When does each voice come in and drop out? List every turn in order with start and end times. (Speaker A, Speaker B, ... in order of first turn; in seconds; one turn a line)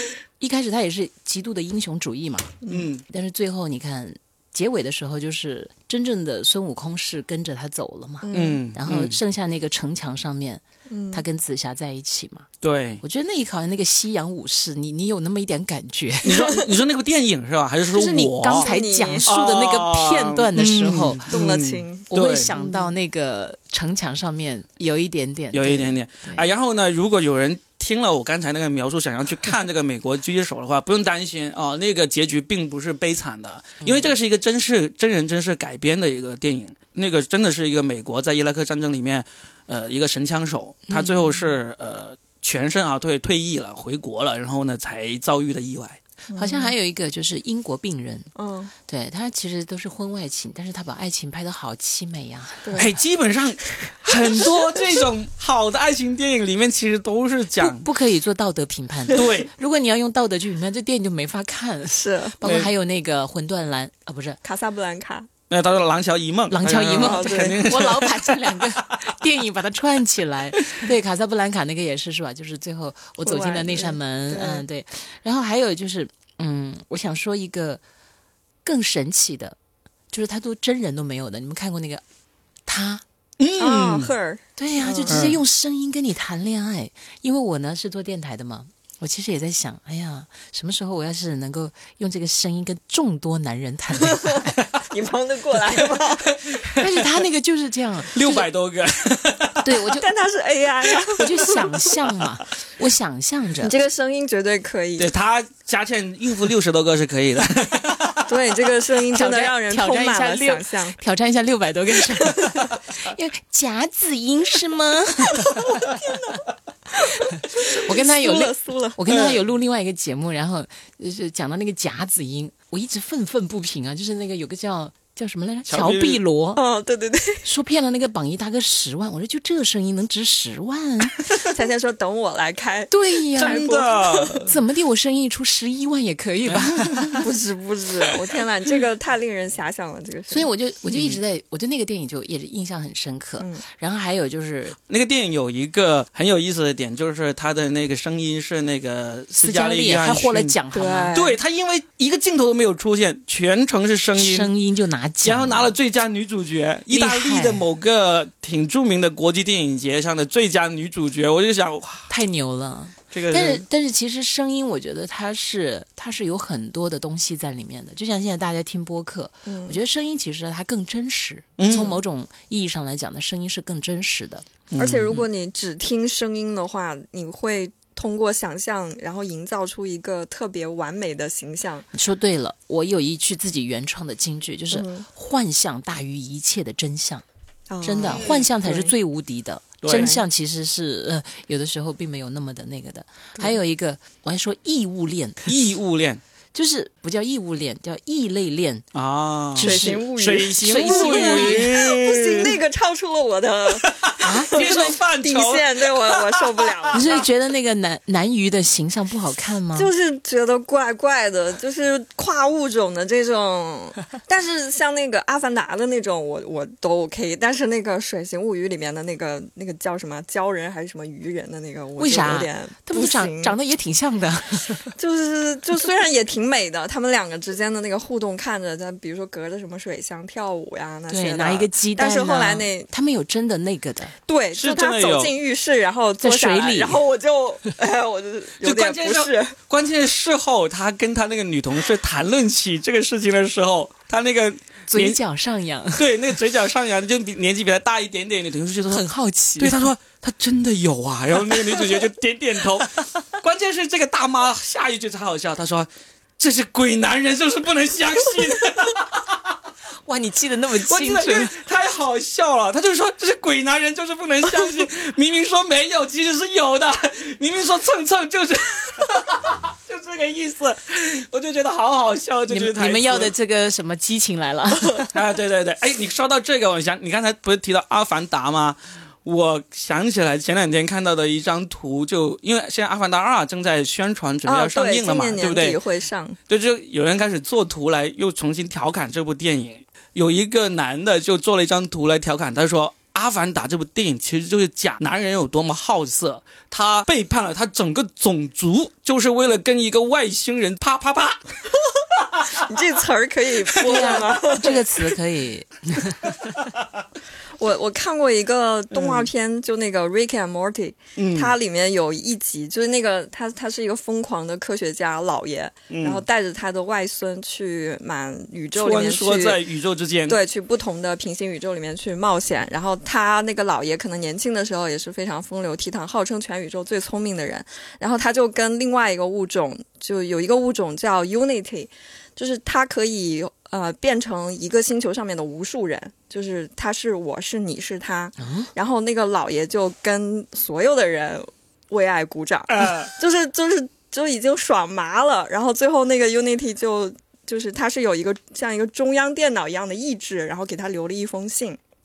Speaker A: 0.4-12.5
Speaker B: 2.6-2.9
Speaker C: 2.7-3.0
Speaker B: 8.2-8.6
Speaker C: 8.3-9.2
Speaker B: 10.9-11.2
Speaker C: 12.6-13.0
Speaker A: 13.0-16.6
Speaker C: 16.2-18.7
Speaker A: 17.9-21.3
Speaker B: 18.6-19.3
Speaker C: 19.2-22.5
Speaker B: 21.3-22.9
Speaker A: 22.1-26.5
Speaker C: 25.5-46.0
Speaker A: 40.9-41.5
Speaker B: 46.3-46.7
Speaker A: 46.4-48.3
Speaker B: 48.4-48.7
Speaker A: 48.9-52.8
Speaker B: 52.6-52.9
Speaker C: 52.8-57.9
Speaker A: 57.6-64.4
Speaker C: 59.1-59.5
Speaker B: 62.0-62.4
Speaker C: 62.4-62.7
Speaker B: 64.4-65.3
Speaker C: 65.5-68.8
Speaker A: 66.5-77.8
Speaker B: 67.0-67.7
Speaker B: 73.2-74.6
Speaker A: 78.6-79.6
Speaker A: 80.1-82.0
Speaker A: 82.7-83.0
Speaker C: 83.4-84.1
Speaker B: 83.6-85.4
Speaker A: 84.6-94.5
Speaker C: 85.1-85.4
Speaker B: 94.1-96.5
Speaker C: 96.5-96.9
Speaker A: 96.8-98.4
Speaker C: 98.1-99.7
Speaker A: 99.6-100.1
Speaker B: 100.0-101.7
Speaker A: 101.2-103.8
Speaker B: 103.6-105.1
Speaker C: 105.0-108.3
Speaker B: 108.3-111.0
Speaker A: 109.1-115.9
Speaker B: 116.0-116.4
Speaker B: 117.0-119.3
Speaker A: 117.7-126.6
Speaker C: 125.7-126.2
Speaker B: 126.6-127.5
Speaker A: 127.5-131.3
Speaker B: 131.3-134.5
Speaker A: 132.9-133.6
Speaker C: 133.4-134.5
Speaker A: 134.4-137.2
Speaker C: 136.5-137.2
Speaker B: 137.2-140.5
Speaker A: 140.3-144.8
Speaker C: 140.9-141.2
Speaker B: 143.4-143.7
Speaker C: 144.9-150.6
Speaker A: 149.4-151.2
Speaker B: 150.7-151.4
Speaker C: 151.1-154.5
Speaker A: 154.2-155.7
Speaker C: 155.2-162.1
Speaker A: 156.9-157.6
Speaker A: 162.1-174.5
Speaker C: 163.1-163.6
Speaker B: 169.5-169.8
Speaker C: 171.6-172.0
Speaker C: 174.7-175.2
Speaker B: 174.8-181.9
Speaker A: 181.9-187.2
Speaker B: 184.7-185.1
Speaker B: 187.7-188.9
Speaker A: 187.8-195.4
Speaker C: 189.8-190.1
Speaker B: 189.9-190.2
Speaker C: 195.5-196.2
Speaker A: 196.5-198.8
Speaker C: 198.9-202.6
Speaker A: 199.6-201.7
Speaker B: 199.6-207.2
Speaker C: 204.1-207.0
Speaker A: 204.2-204.6
Speaker A: 206.9-209.9
Speaker B: 209.8-223.6
Speaker A: 222.0-224.9
Speaker B: 224.9-232.9
Speaker A: 231.1-234.2
Speaker B: 234.3-239.6
Speaker C: 234.6-235.3
Speaker A: 236.2-237.0
Speaker C: 238.6-245.2
Speaker A: 244.9-246.1
Speaker C: 246.0-249.1
Speaker A: 248.9-249.9
Speaker C: 249.6-255.9
Speaker C: 256.4-259.4
Speaker A: 260.1-261.5
Speaker C: 260.9-273.3
Speaker A: 272.5-275.1
Speaker C: 275.1-285.8
Speaker B: 284.5-286.4
Speaker C: 286.5-301.5
Speaker C: 302.2-302.6
Speaker B: 302.5-304.9
Speaker A: 303.9-306.4
Speaker B: 307.6-319.6
Speaker C: 308.9-309.3
Speaker C: 311.2-311.5
Speaker C: 315.9-316.2
Speaker C: 318.8-320.4
Speaker B: 320.3-351.8
Speaker A: 338.4-338.7
Speaker C: 342.7-343.1